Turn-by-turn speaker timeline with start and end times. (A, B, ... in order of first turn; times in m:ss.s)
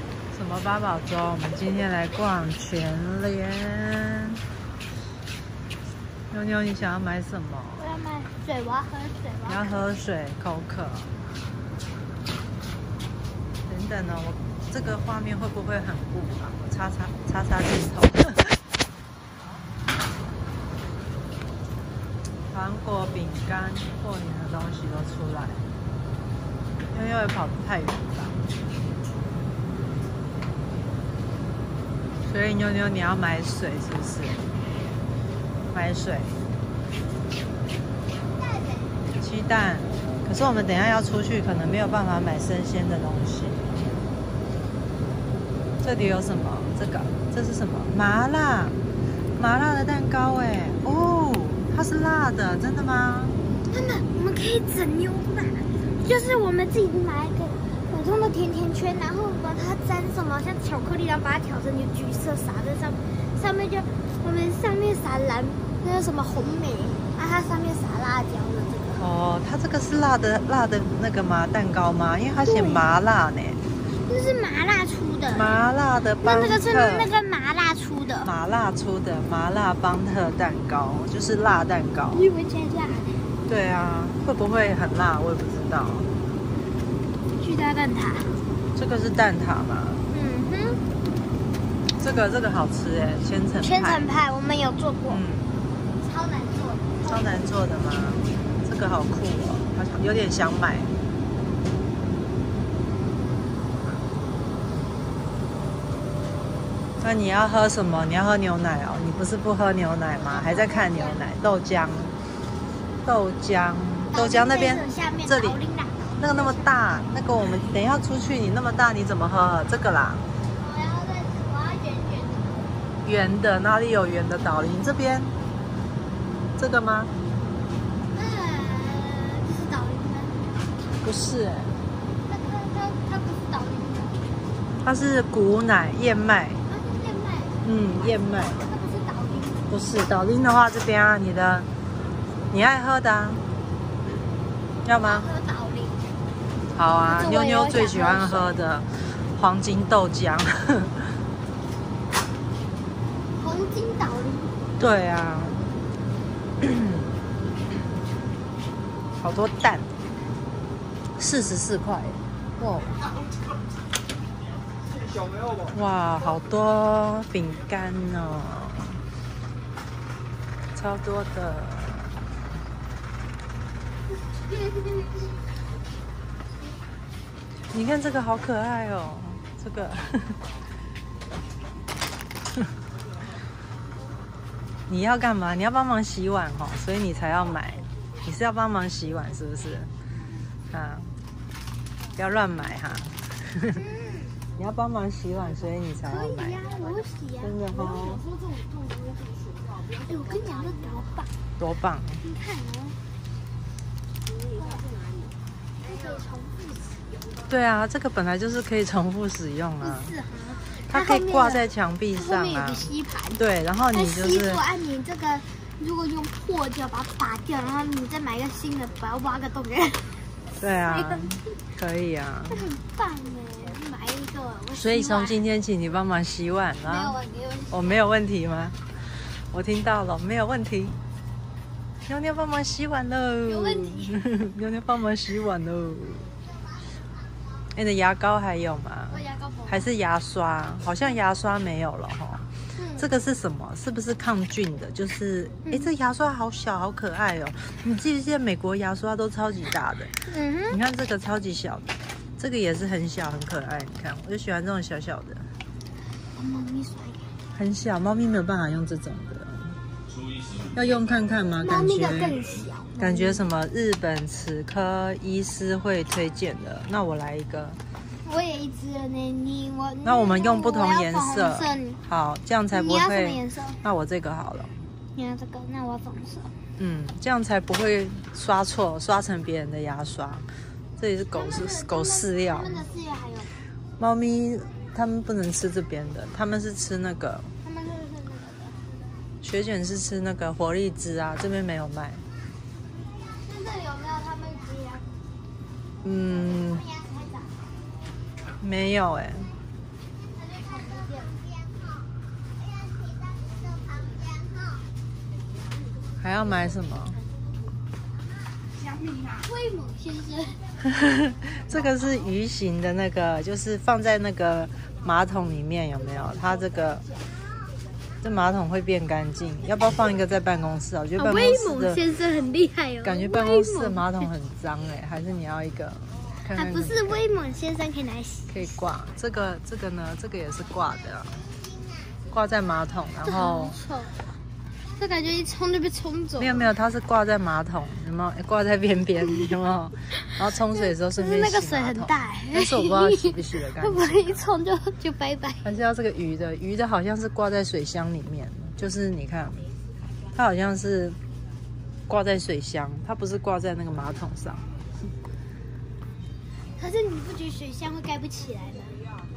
0:00.3-0:04.4 A
0:06.3-0:07.9 A
0:07.8-0:09.9 B
0:09.5-0:11.1 A
0:13.7-0:18.6 A
0:22.5-0:25.6 A
0:26.9-0:28.4 A
0:32.3-0:34.5 A
0:35.7-0:36.4 A
0:38.4-0:38.9 B
0:39.2-0:43.7 A
0:45.8-0:48.8 A
0:49.4-0:53.4 A
0:53.7-1:09.1 B
1:09.0-1:13.6 A
1:12.4-1:12.8 B
1:13.9-1:15.5 B
1:15.3-1:17.1 A
1:16.2-1:18.3 B
1:18.2-1:22.2 A
1:22.1-1:23.3 B
1:23.5-1:26.1 A
1:27.4-1:28.4 B
1:28.8-1:30.1 A
1:30.1-1:30.8 B
1:32.0-1:34.1 A
1:33.6-1:35.2 B
1:35.1-1:35.5 A
1:36.0-1:37.5 B
1:37.1-1:41.0 A
1:47.0-1:52.2 A
1:50.2-1:51.3 B
1:53.0-1:55.6 A
1:54.1-1:56.8 B
1:56.2-2:00.2 A
2:00.5-2:02.9 B
2:03.0-2:05.3 A
2:06.6-2:07.1 A
2:08.1-2:10.6 B
2:11.0-2:11.8 A
2:12.3-2:14.2 B
2:14.8-2:16.6 A
2:16.7-2:19.7 B
2:17.6-2:18.6 A
2:19.7-2:21.7 A
2:22.5-2:23.4 A
2:24.8-2:25.3 A
2:25.0-2:26.1 B
2:26.7-2:31.1 A
2:27.0-2:28.5 B
2:33.3-2:34.6 B
2:34.8-2:35.7 A
2:36.6-2:37.1 A
2:39.2-2:39.9 A
2:41.2-2:43.0 A
2:45.7-2:49.0 A
2:50.8-2:52.2 A
2:54.6-2:55.2 B
2:57.7-3:00.4 A
3:04.9-3:09.9 A
3:10.7-3:11.1 A
3:12.2-3:13.8 A
3:13.7-3:14.4 B
3:14.6-3:16.6 A
3:16.0-3:19.3 B
3:17.4-3:18.2 A
3:19.9-3:21.3 B
3:21.6-3:22.2 A
3:22.2-3:23.0 B
3:24.6-3:24.8 B
3:25.8-3:27.0 B
3:27.5-3:30.1 A
3:29.8-3:40.2 B
3:30.9-3:34.6 A
3:40.6-3:42.7 A
3:40.8-3:41.5 B
3:42.5-3:45.4 B
3:44.8-3:47.2 A
3:46.8-3:48.0 B
3:47.7-3:51.0 A
3:52.1-3:56.3 A
3:53.4-3:54.1 B
3:57.8-4:15.5 A
3:59.1-3:59.9 B
4:02.8-4:03.1 B
4:10.2-4:10.8 B
4:16.3-4:17.4 B
4:17.6-4:19.8 A
4:20.7-4:22.4 A
4:21.6-4:23.4 B
4:23.0-4:27.8 A
4:28.2-4:32.0 B
4:30.0-4:34.8 A
4:32.7-4:33.8 B
4:35.2-4:36.6 B
4:36.8-4:40.5 A
4:41.0-4:42.9 A
4:41.3-4:43.6 B
4:44.0-4:47.5 A
4:47.6-4:48.8 B
4:49.4-4:52.2 A
4:53.4-4:55.2 B
4:56.0-4:56.8 A
4:56.4-4:57.7 B
4:58.6-4:59.5 A
5:00.3-5:01.4 B
5:06.2-5:07.2 A
5:09.1-5:10.6 B
5:10.8-5:17.1 A
5:18.2-5:22.0 A
5:21.2-5:24.3 B
5:23.0-5:27.2 A
5:26.5-5:28.6 B
5:28.5-5:31.4 A
5:32.3-5:33.8 A
5:33.2-5:34.2 B
5:35.0-5:36.7 B
5:36.4-5:44.4 A
5:41.1-5:45.7 B
5:45.6-5:49.7 A
5:50.4-5:51.2 A
5:52.1-5:54.7 A
5:56.8-5:59.0 B